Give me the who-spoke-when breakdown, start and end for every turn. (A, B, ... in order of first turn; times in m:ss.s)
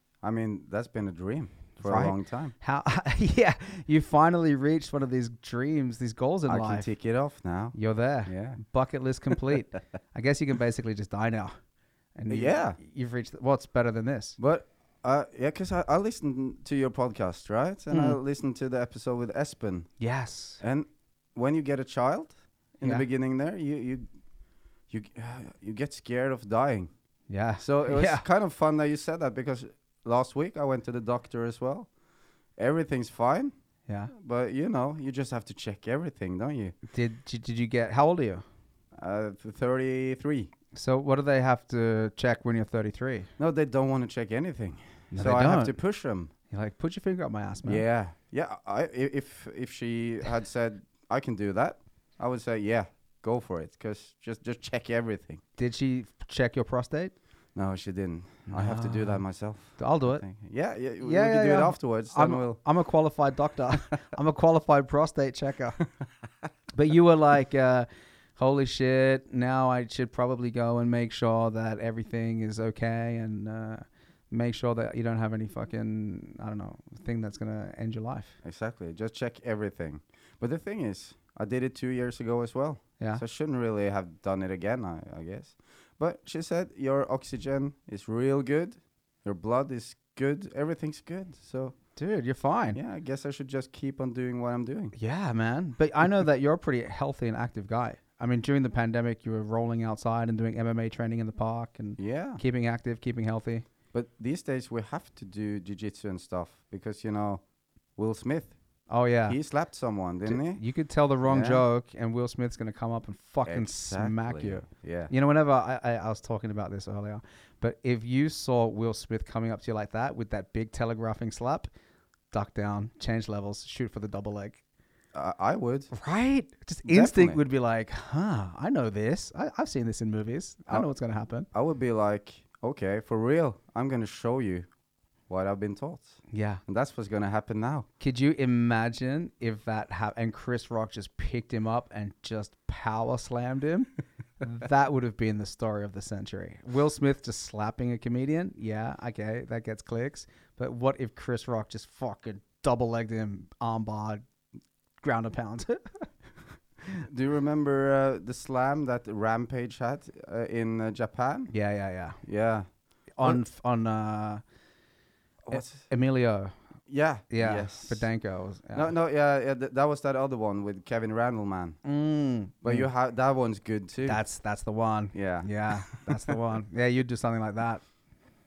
0:00.2-0:02.5 A
0:01.8-0:06.9 B
0:06.5-0:08.6 A
0:07.7-0:11.5 B
0:12.2-0:14.4 B
0:12.3-0:12.8 A
0:14.4-0:19.9 A
0:17.9-0:18.2 B
0:20.0-0:20.6 B
0:20.6-0:24.1 A
0:24.9-0:26.9 A
0:27.3-0:28.2 B
0:27.6-0:31.9 A
0:32.6-0:33.5 A
0:33.9-0:34.1 B
0:34.1-0:36.8 A
0:36.9-0:38.4 B
0:39.0-0:40.5 A
0:40.7-0:43.3 B
0:43.4-0:46.3 A
0:45.1-0:45.7 B
0:46.5-0:47.8 B
0:47.6-0:55.4 A
0:55.6-0:57.2 B
0:57.6-1:02.6 A
0:58.5-0:59.2 B
0:59.8-1:00.2 B
1:01.0-1:05.8 B
1:06.7-1:18.4 B
1:18.4-1:31.8 A
1:32.0-1:32.8 B
1:32.7-1:34.9 A
1:35.0-1:43.7 B
1:42.0-1:42.4 A
1:43.9-1:47.4 A
1:48.0-1:48.6 A
1:48.9-1:49.4 B
1:49.3-1:50.6 A
1:50.3-2:01.7 B
1:51.2-1:51.6 A
1:53.5-1:55.1 A
2:02.3-2:04.6 B
2:05.1-2:05.9 A
2:05.9-2:11.5 B
2:06.8-2:07.4 A
2:11.5-2:14.7 A
2:15.3-2:17.9 A
2:16.3-2:16.6 B
2:18.0-2:34.2 B
2:35.0-2:36.0 B
2:37.0-2:41.5 A
2:41.5-2:42.2 B
2:42.2-2:42.7 A
2:43.2-2:44.4 B
2:45.5-2:45.9 A
2:45.5-2:46.5 B
2:46.9-2:48.1 A
2:47.3-2:48.9 B
2:48.7-2:51.8 A
2:51.8-2:52.9 B
2:52.6-2:54.2 A
2:54.1-2:57.8 B
2:55.1-2:56.4 A